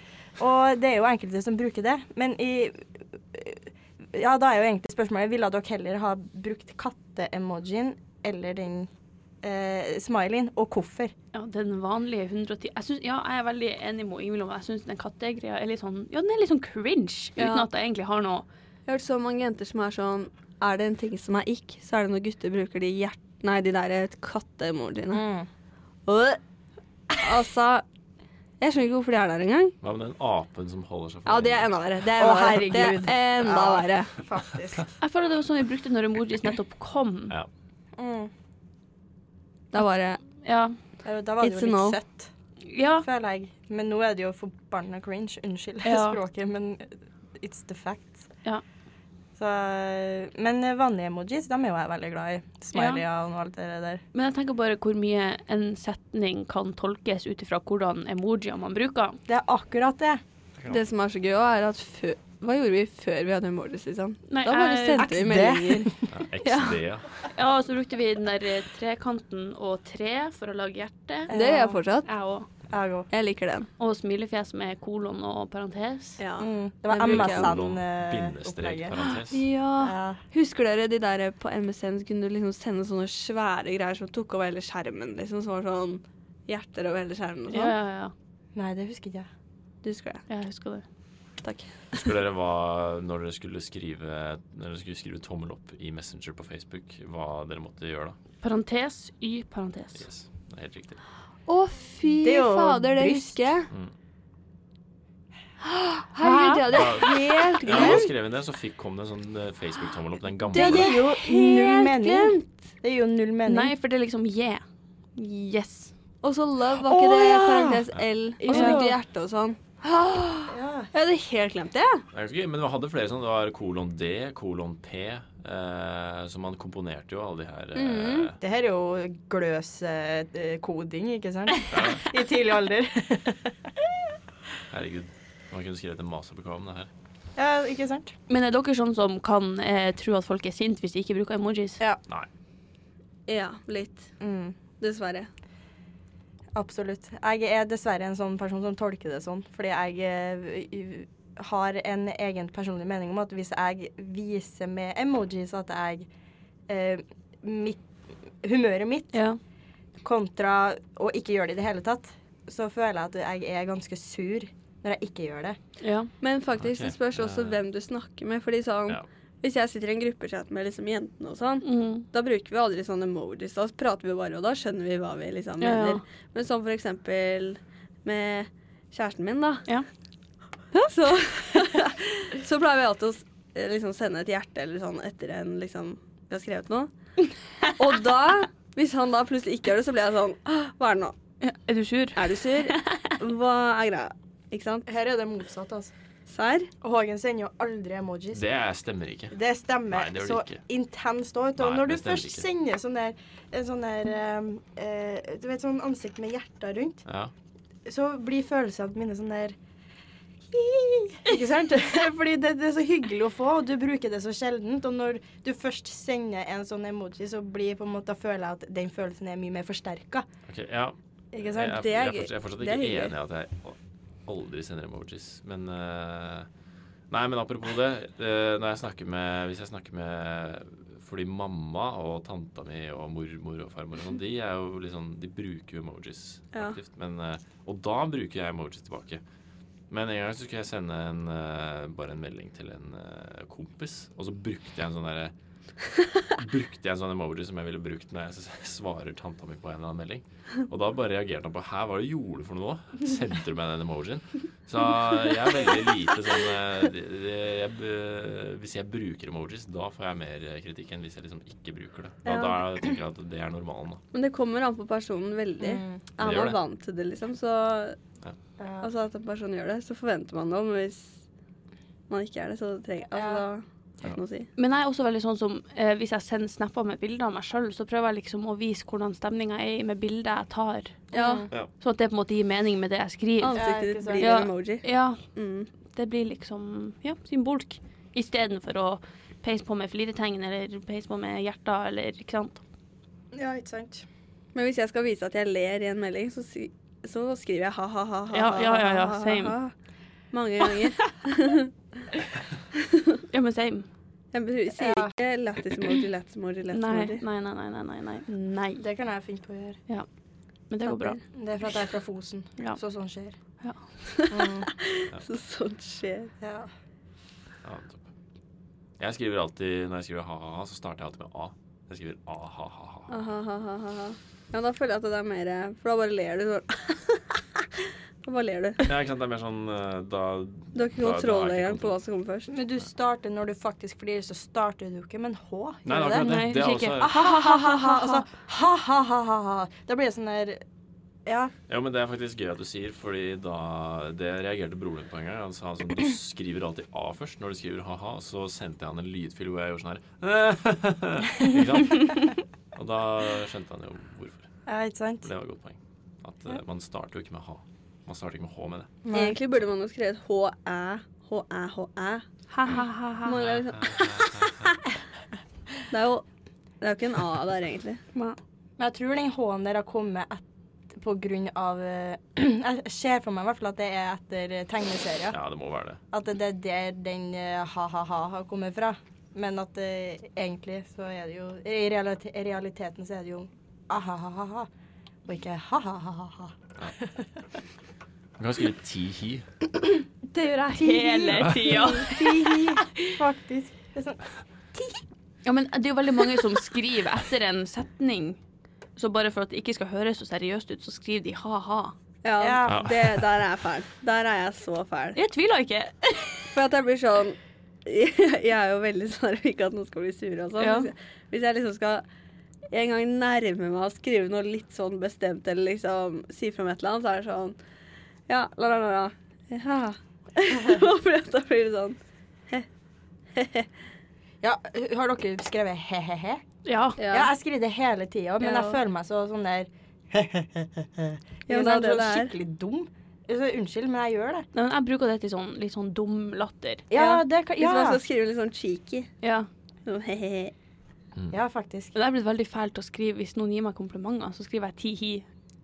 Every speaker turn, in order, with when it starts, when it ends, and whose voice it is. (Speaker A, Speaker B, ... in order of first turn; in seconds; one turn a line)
Speaker A: 0.4-8.9
Speaker A: 9.4-11.1
Speaker B: 11.3-18.4
Speaker C: 17.4-17.7
Speaker C: 18.9-25.2
Speaker A: 25.1-25.5
Speaker C: 26.1-26.4
Speaker C: 27.2-27.8
Speaker C: 28.6-29.7
Speaker D: 29.8-31.7
Speaker C: 31.2-34.1
Speaker A: 32.2-34.9
Speaker B: 35.0-37.3
Speaker A: 38.0-38.3
Speaker C: 39.7-40.2
Speaker B: 40.4-40.8
Speaker A: 41.0-42.3
Speaker C: 41.4-42.0
Speaker B: 42.6-43.0
Speaker A: 43.0-48.2
Speaker B: 45.8-46.2
Speaker A: 49.4-54.0
Speaker B: 52.7-53.0
Speaker B: 54.1-59.2
Speaker A: 59.3-60.2
Speaker D: 60.6-60.8
Speaker C: 60.7-66.8
Speaker B: 64.3-65.1
Speaker A: 65.0-66.1
Speaker D: 66.1-67.3
Speaker B: 67.3-71.3
Speaker A: 71.3-71.8
Speaker C: 71.3-72.1
Speaker B: 72.0-72.5
Speaker A: 72.7-73.1
Speaker C: 73.1-73.7
Speaker B: 73.8-76.2
Speaker C: 76.2-77.5
Speaker A: 76.4-79.0
Speaker D: 77.0-79.5
Speaker C: 79.3-87.7
Speaker A: 79.8-80.2
Speaker B: 87.5-88.1
Speaker A: 88.5-89.3
Speaker C: 89.8-90.2
Speaker B: 90.3-90.8
Speaker C: 91.4-92.0
Speaker D: 91.9-98.2
Speaker B: 98.4-100.0
Speaker D: 100.0-101.0
Speaker C: 101.5-103.7
Speaker A: 102.0-103.6
Speaker C: 105.6-108.0
Speaker B: 106.2-106.6
Speaker D: 106.7-111.0
Speaker A: 107.7-108.1
Speaker C: 110.5-112.6
Speaker A: 110.5-113.7
Speaker B: 113.5-115.9
Speaker C: 116.2-122.0
Speaker A: 116.7-117.8
Speaker A: 118.4-119.0
Speaker B: 118.5-118.8
Speaker A: 120.5-120.9
Speaker D: 122.1-128.4
Speaker C: 127.7-128.3
Speaker A: 128.4-133.9
Speaker D: 131.7-132.1
Speaker D: 134.7-136.9
Speaker A: 137.3-138.1
Speaker B: 138.3-141.8
Speaker C: 143.3-144.1
Speaker A: 144.2-144.6
Speaker C: 144.8-145.3
Speaker A: 146.5-156.1
Speaker A: 156.7-157.8
Speaker A: 158.4-159.2
Speaker B: 159.1-159.4
Speaker A: 160.0-165.6
Speaker B: 165.8-166.1
Speaker C: 166.2-179.7
Speaker D: 166.6-167.6
Speaker B: 171.6-172.1
Speaker B: 175.6-176.0
Speaker C: 180.8-186.9
Speaker C: 187.6-191.2
Speaker B: 191.4-192.3
Speaker C: 192.2-194.8
Speaker A: 194.8-195.9
Speaker C: 196.3-196.7
Speaker A: 196.8-198.4
Speaker D: 198.3-199.4
Speaker A: 199.3-207.0
Speaker D: 199.9-200.6
Speaker D: 201.6-202.4
Speaker D: 207.1-207.3
Speaker A: 207.8-209.6
Speaker A: 210.5-220.3
Speaker D: 220.5-226.5
Speaker A: 221.3-221.8
Speaker C: 221.7-223.1
Speaker D: 227.1-239.2
Speaker D: 239.9-245.3
Speaker D: 246.3-264.0
Speaker A: 262.2-262.6
Speaker C: 264.1-268.0
Speaker A: 265.6-266.0
Speaker D: 266.2-266.6
Speaker A: 268.6-268.9
Speaker C: 268.8-271.2
Speaker C: 272.1-274.5
Speaker A: 273.1-273.4
Speaker B: 274.6-281.1
Speaker C: 281.1-281.5
Speaker A: 281.1-281.5
Speaker B: 281.8-285.2
Speaker C: 283.4-285.7
Speaker A: 283.5-284.4
Speaker B: 285.9-292.6
Speaker A: 293.3-294.1
Speaker C: 294.5-299.7
Speaker B: 298.3-299.6
Speaker C: 300.3-301.7
Speaker B: 303.3-303.9
Speaker C: 304.3-307.2
Speaker A: 304.8-305.1
Speaker B: 306.7-308.8
Speaker A: 308.8-309.8
Speaker B: 310.7-311.2
Speaker C: 310.9-311.2
Speaker A: 311.3-313.3
Speaker C: 314.2-316.3
Speaker A: 314.3-314.7
Speaker A: 316.4-316.7
Speaker D: 317.6-318.0
Speaker D: 319.0-323.1
Speaker C: 323.1-328.8
Speaker D: 328.8-332.0
Speaker C: 330.7-332.5
Speaker A: 332.5-336.2
Speaker D: 335.9-337.2
Speaker B: 336.1-338.2
Speaker A: 337.0-340.6
Speaker A: 341.2-341.5
Speaker D: 341.7-354.5
Speaker A: 354.6-355.3
Speaker D: 355.2-358.9
Speaker A: 359.0-359.4
Speaker C: 359.1-362.2
Speaker B: 362.5-363.4
Speaker C: 363.2-364.7
Speaker D: 363.3-364.7
Speaker C: 365.9-366.2
Speaker C: 366.8-368.0
Speaker A: 368.8-375.4
Speaker D: 375.3-376.0
Speaker A: 376.1-384.7
Speaker A: 385.2-387.3
Speaker D: 388.4-389.4
Speaker A: 390.3-394.2
Speaker B: 390.7-393.1
Speaker A: 394.7-395.0
Speaker B: 395.4-398.4
Speaker B: 398.9-401.9
Speaker C: 402.2-405.2
Speaker A: 402.4-402.8
Speaker D: 402.6-403.2
Speaker B: 405.1-406.5
Speaker C: 406.5-412.0
Speaker B: 410.6-410.9
Speaker C: 412.7-417.6
Speaker C: 418.3-422.0
Speaker C: 423.3-423.7
Speaker A: 424.4-426.4
Speaker B: 426.6-427.0
Speaker C: 427.0-427.3
Speaker A: 427.0-434.5
Speaker C: 428.4-428.8
Speaker C: 431.5-432.3
Speaker B: 434.5-436.9
Speaker A: 436.9-438.0
Speaker C: 436.9-439.1
Speaker B: 439.2-439.5
Speaker C: 439.8-440.5
Speaker A: 441.3-441.9
Speaker B: 441.9-445.3